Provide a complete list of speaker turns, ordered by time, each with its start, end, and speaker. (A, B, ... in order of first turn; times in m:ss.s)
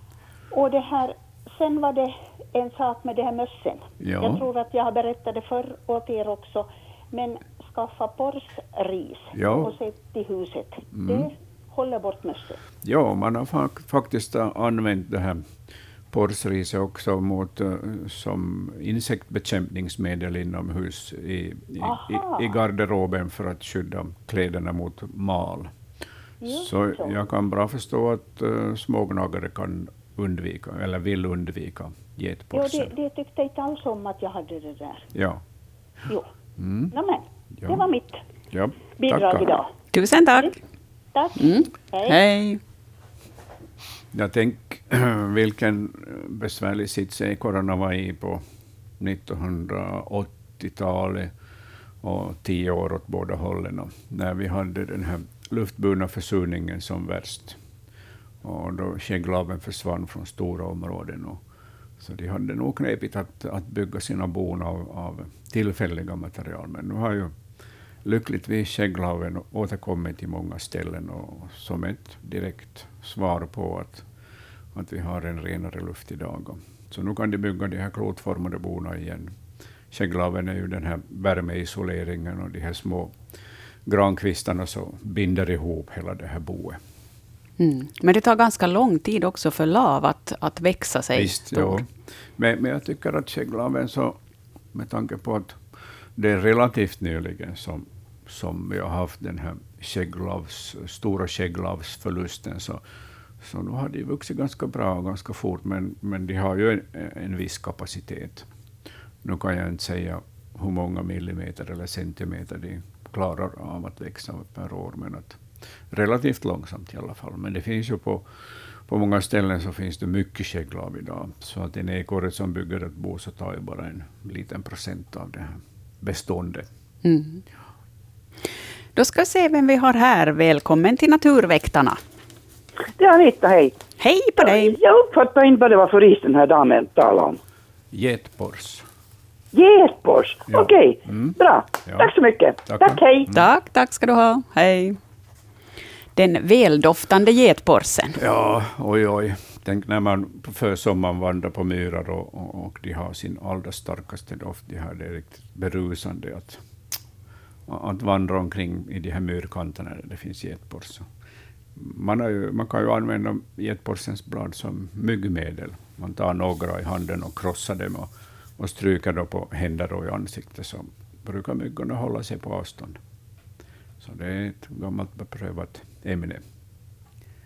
0:00.5-0:12.6 A
0:04.0-0:04.4 B
0:09.3-0:09.8 B
0:10.9-0:11.3 B
0:12.8-0:15.5 B
0:16.1-0:25.7 B
0:21.8-0:22.5 A
0:26.4-0:27.1 A
0:26.5-0:32.9 B
0:32.5-0:35.1 A
0:35.1-0:35.4 B
0:36.6-0:36.9 B
0:36.9-0:38.2 A
0:37.6-0:37.9 B
0:38.5-0:39.6 B
0:39.0-0:39.7 A
0:39.9-0:40.5 C
0:41.1-0:42.2 A
0:41.3-0:42.6 C
0:44.1-0:48.4 B
0:49.0-0:51.3 B
0:52.0-0:57.6 B
0:58.4-1:01.4 B
1:02.0-1:07.3 B
1:08.0-1:14.0 B
1:14.7-1:19.4 B
1:19.9-1:23.2 B
1:23.8-1:26.8 B
1:27.6-1:31.8 C
1:31.1-1:34.2 B
1:34.7-1:35.6 B
1:36.2-1:42.8 B
1:43.4-1:48.5 B
1:49.2-1:58.3 B
1:58.9-2:06.7 B
2:07.0-2:07.4 C
2:09.0-2:12.0 C
2:13.0-2:13.8 D
2:14.0-2:14.8 C
2:14.4-2:17.4 D
2:17.9-2:18.8 B
2:19.5-2:23.3 D
2:20.5-2:22.1 B
2:22.6-2:23.4 B
2:23.3-2:25.0 C
2:26.2-2:28.2 C
2:28.2-2:36.6 B
2:37.7-2:41.1 B
2:41.8-2:53.0 B
2:54.0-2:56.4 B